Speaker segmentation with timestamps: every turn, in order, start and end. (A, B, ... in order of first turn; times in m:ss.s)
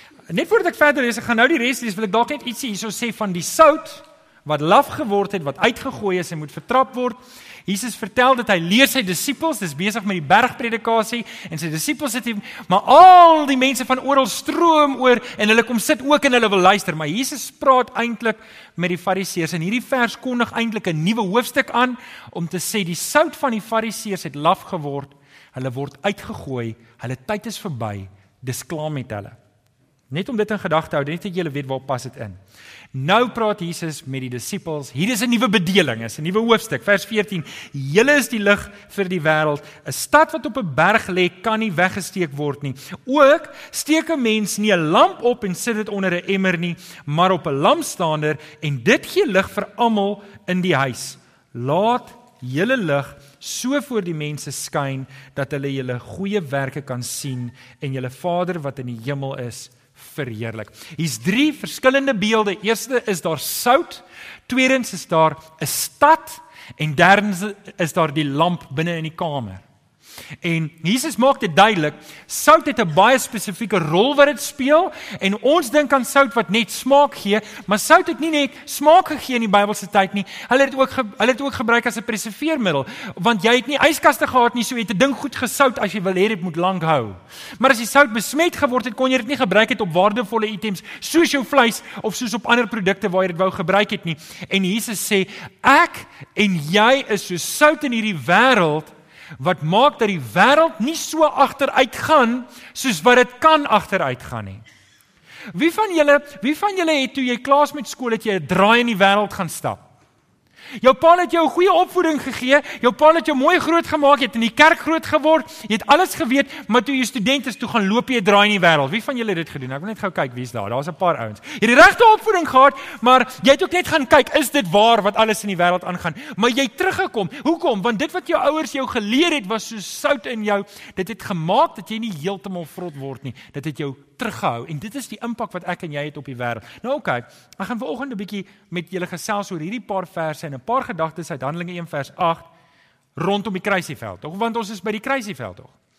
0:00.3-0:29.4 A
0:30.1-0:32.4 A
0:32.9-1:09.6 A
1:10.4-1:44.6 A
1:45.5-1:49.8 A
1:50.8-2:22.5 A
2:23.2-2:25.7 A